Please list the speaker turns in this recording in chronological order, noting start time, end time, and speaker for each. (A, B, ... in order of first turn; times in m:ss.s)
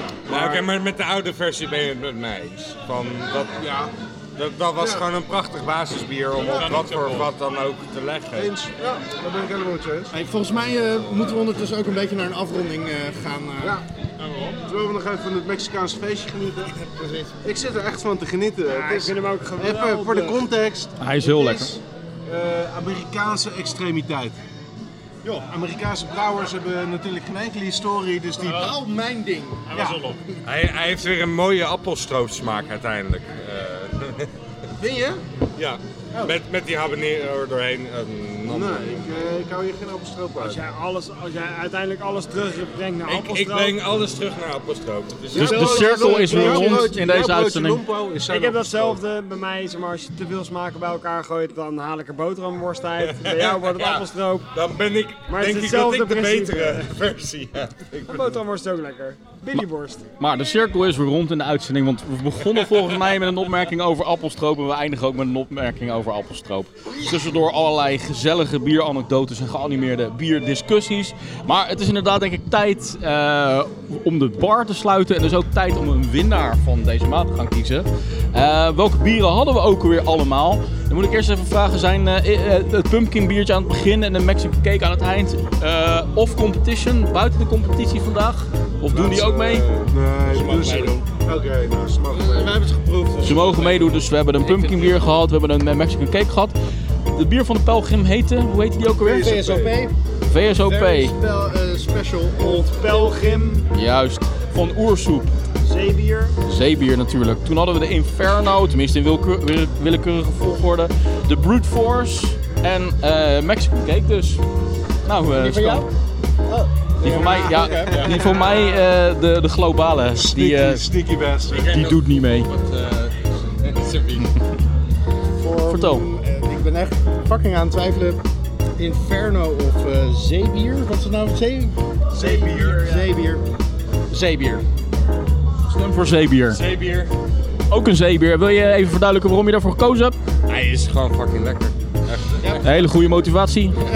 0:00.3-0:03.6 A
0:00.3-0:00.6 B
0:03.6-0:03.9 B
0:04.4-0:08.6 A
0:06.4-0:07.3 C
0:08.4-0:10.1 B
0:10.1-0:13.8 D
0:14.2-0:14.6 C
0:14.6-0:16.8 B
0:16.7-0:17.4 D
0:17.4-0:24.4 B
0:18.7-0:20.4 E
0:21.0-0:21.8 F
0:25.5-0:28.7 B
0:28.4-0:28.8 C
0:28.5-0:29.7 D
0:29.7-0:30.2 C
0:29.7-0:30.0 B
0:30.4-0:34.3 A
0:34.8-0:35.2 B
0:35.6-0:39.1 A
0:38.5-0:40.6 B
0:40.4-0:43.8 E
0:43.1-0:46.1 A
0:45.3-0:49.0 B
0:45.3-0:47.8 F
0:48.3-0:54.5 E
0:53.0-0:58.4 A
0:55.3-0:56.9 E
0:58.0-1:00.0 E
1:00.2-1:29.7 F
1:28.9-1:32.6 B
1:30.3-1:31.0 D
1:30.5-1:30.7 A
1:32.1-1:35.0 A
1:33.2-1:36.5 F
1:37.2-1:39.4 F
1:39.0-1:43.6 D
1:39.2-1:39.8 B
1:40.3-1:41.2 F
1:42.4-1:43.7 E
1:43.7-1:45.3 F
1:45.6-1:46.4 E
1:46.5-1:54.4 F
1:55.1-1:55.9 F
1:55.4-1:55.8 D
1:56.5-1:58.0 D
1:57.0-2:00.9 F
1:57.0-1:58.0 B
1:57.8-1:58.3 A
2:00.1-2:01.6 B
2:01.5-2:04.4 A
2:01.6-2:02.5 F
2:05.4-2:08.2 D
2:05.7-2:06.1 F
2:08.8-2:13.4 D
2:12.2-2:13.0 A
2:14.1-2:14.6 D
2:15.7-2:16.6 F
2:16.5-2:17.1 A
2:17.7-2:20.2 F
2:20.5-2:22.7 A
2:22.6-2:23.8 F